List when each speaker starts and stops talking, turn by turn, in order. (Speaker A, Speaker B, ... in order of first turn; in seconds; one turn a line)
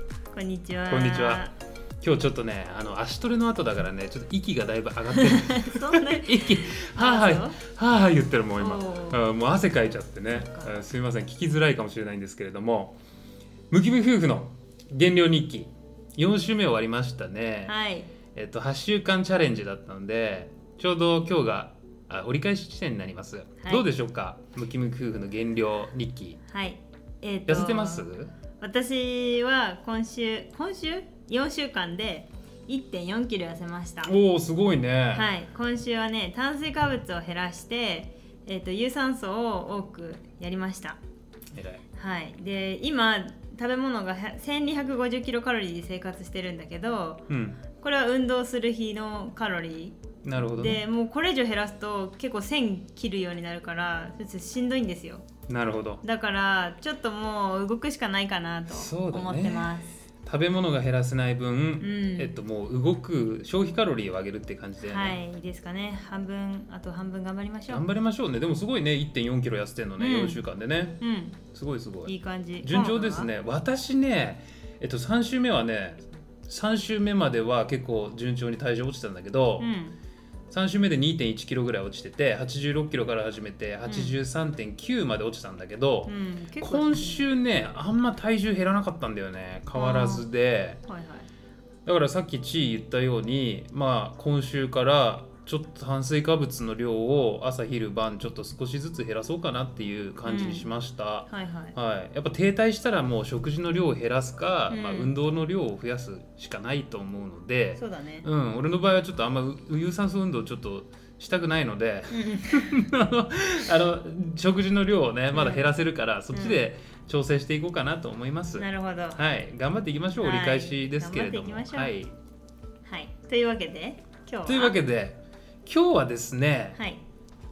Speaker A: 0.3-1.5
Speaker B: 0.9-1.4
Speaker B: 2.0-13.0
Speaker A: 5.1-7.6
Speaker A: 8.6-9.2
Speaker A: 10.3-10.8
Speaker B: 13.7-17.7
Speaker A: 17.7-18.1
Speaker B: 18.3-26.4
Speaker A: 23.6-23.9
Speaker A: 26.5-34.1
Speaker B: 27.5-28.3
Speaker B: 34.0-35.3
Speaker A: 35.1-41.0
Speaker B: 41.5-41.8
Speaker A: 41.9-50.0
Speaker B: 47.3-47.6
Speaker B: 50.2-50.8
Speaker A: 50.5-55.2
Speaker B: 55.5-56.0
Speaker A: 56.0-60.0
Speaker B: 58.7-59.7
Speaker B: 60.2-65.2
Speaker A: 61.8-62.3
Speaker A: 64.8-67.8
Speaker B: 67.7-72.1
Speaker A: 70.0-70.4
Speaker A: 71.0-71.4
Speaker A: 72.1-73.3
Speaker B: 72.6-79.7
Speaker A: 79.6-79.9
Speaker B: 80.5-90.8
Speaker A: 83.9-84.1
Speaker A: 86.1-87.2
Speaker A: 89.7-90.2
Speaker A: 90.9-91.3
Speaker B: 91.8-122.1
Speaker A: 100.2-100.7
Speaker A: 101.3-101.8
Speaker A: 104.7-105.1
Speaker A: 107.8-108.2
Speaker A: 112.1-112.9
Speaker A: 115.3-115.7
Speaker A: 116.3-116.6
Speaker A: 118.6-119.2
Speaker A: 120.2-121.9
Speaker A: 122.8-124.8
Speaker B: 124.5-126.8
Speaker A: 126.8-127.0